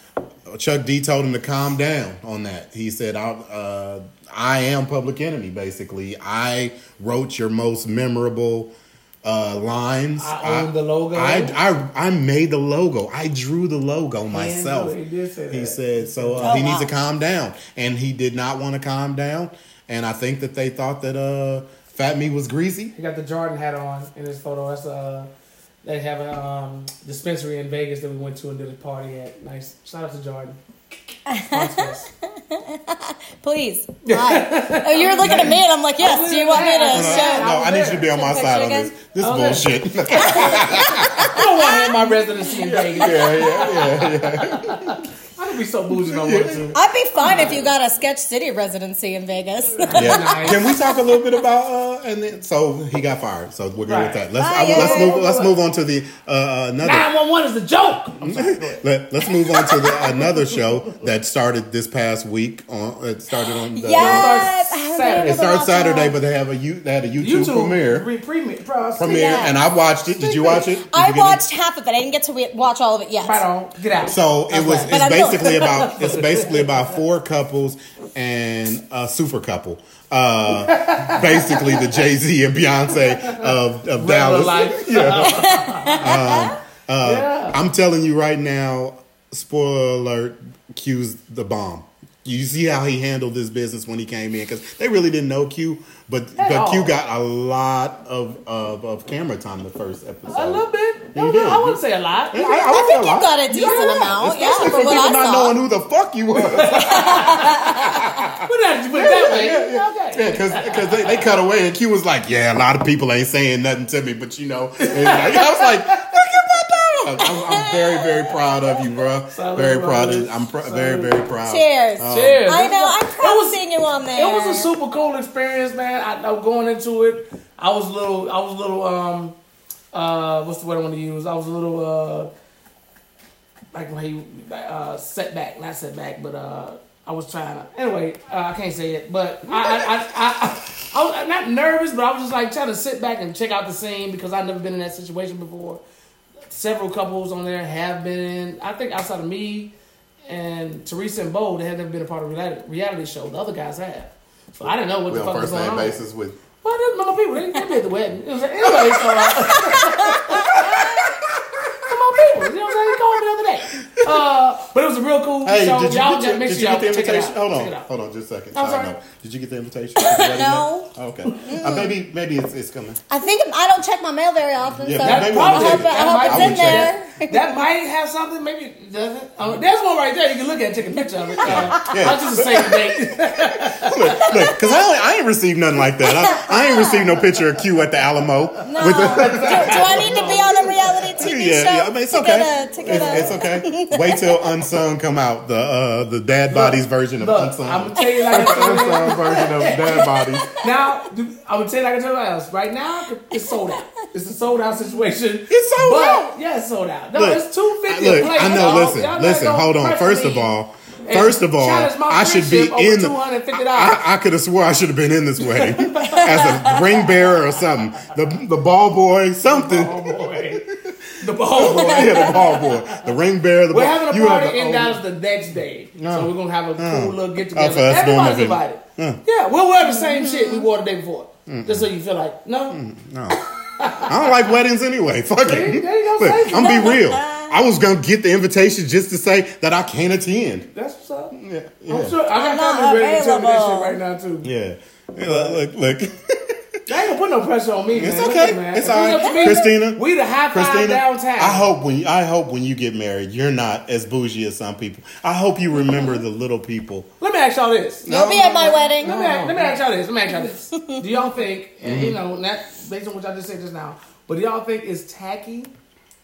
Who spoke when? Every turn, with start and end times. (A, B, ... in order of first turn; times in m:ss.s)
0:00.5-0:08.7 A
0:09.2-0:15.0 A
0:10.2-0:11.6 B
0:14.3-0:16.6 B
0:15.5-0:22.9 A
0:16.4-0:17.0 C
0:22.9-0:25.3 B
0:25.8-0:30.6 B
0:31.3-0:37.5 C
0:31.5-0:32.1 B
0:34.0-0:38.1 B
0:35.2-0:35.5 A
0:36.9-0:41.4 A
0:38.1-0:38.9 C
0:39.2-0:39.7 B
0:40.1-0:42.5 C
0:40.2-0:40.5 B
0:41.3-0:47.6 B
0:42.5-0:45.0 A
0:45.9-0:46.7 A
0:46.7-0:50.8 C
0:49.8-0:50.7 B
0:49.9-0:57.1 A
0:53.9-0:55.5 B
0:54.4-0:55.2 C
0:56.8-0:58.8 B
0:58.2-1:04.4 A
0:59.4-1:00.0 C
1:03.7-1:06.2 C
1:03.9-1:05.4 B
1:05.2-1:08.1 A
1:07.2-1:09.5 B
1:09.0-1:11.4 A
1:09.1-1:09.5 C
1:10.2-1:10.6 B
1:10.8-1:13.4 C
1:13.2-1:16.6 B
1:14.0-1:41.8 A
1:14.9-1:15.8 C
1:20.5-1:22.0 B
1:23.0-1:26.2 B
1:25.2-1:26.5 C
1:27.0-1:27.6 B
1:36.4-1:36.9 B
1:40.3-1:42.7 B
1:42.3-2:02.4 A
1:42.4-1:45.6 C
1:43.5-1:44.2 B
1:46.3-1:47.5 B
1:46.9-1:48.2 C
1:48.4-1:51.3 B
1:54.8-1:56.0 B
1:57.2-1:58.2 C
1:59.3-2:01.2 B
2:01.4-2:04.7 C
2:02.0-2:03.6 B
2:04.1-2:09.4 B
2:09.9-2:12.3 B
2:13.7-2:25.8 B
2:26.5-2:29.7 B
2:30.2-2:36.0 B
2:35.1-2:36.4 A
2:36.6-2:41.1 B
2:38.6-2:39.4 A
2:39.5-2:40.7 C
2:40.3-2:41.8 A
2:41.8-2:47.9 B
2:43.8-2:44.2 A
2:45.4-2:53.0 A
2:48.5-2:48.9 B
2:50.0-2:51.9 C
2:53.1-2:57.5 C
2:54.8-2:56.9 A
2:55.0-3:04.3 B
3:01.4-3:01.8 C
3:01.4-3:10.3 A
3:04.1-3:04.8 C
3:06.0-3:07.1 C
3:08.6-3:14.5 C
3:08.8-3:11.1 B
3:11.2-3:20.5 A
3:12.8-3:13.4 B
3:16.5-3:30.5 B
3:18.0-3:18.3 C
3:19.9-3:20.7 C
3:25.5-3:26.3 A
3:27.1-3:41.0 A
3:31.0-3:34.0 B
3:35.4-3:36.8 B
3:36.1-3:36.4 C
3:39.4-3:40.6 B
3:41.2-3:43.1 B
3:41.5-3:45.0 A
3:43.7-3:52.8 B
3:46.0-3:49.2 A
3:49.8-3:50.6 C
3:51.5-3:51.9 A
3:52.7-3:53.4 A
3:53.3-3:54.3 B
3:54.0-4:00.7 A
3:55.4-3:57.0 B
3:56.5-3:57.5 C
4:00.7-4:01.4 B
4:01.3-4:02.2 A
4:01.9-4:04.5 B
4:02.3-4:04.0 C
4:04.4-4:06.8 A
4:05.2-4:05.6 B
4:06.9-4:11.7 B
4:07.9-4:17.1 A
4:09.0-4:09.7 C
4:17.2-4:18.1 B
4:18.0-4:19.8 A
4:18.1-4:19.2 C
4:18.7-4:25.7 B
4:20.3-4:21.0 C
4:21.8-4:22.2 A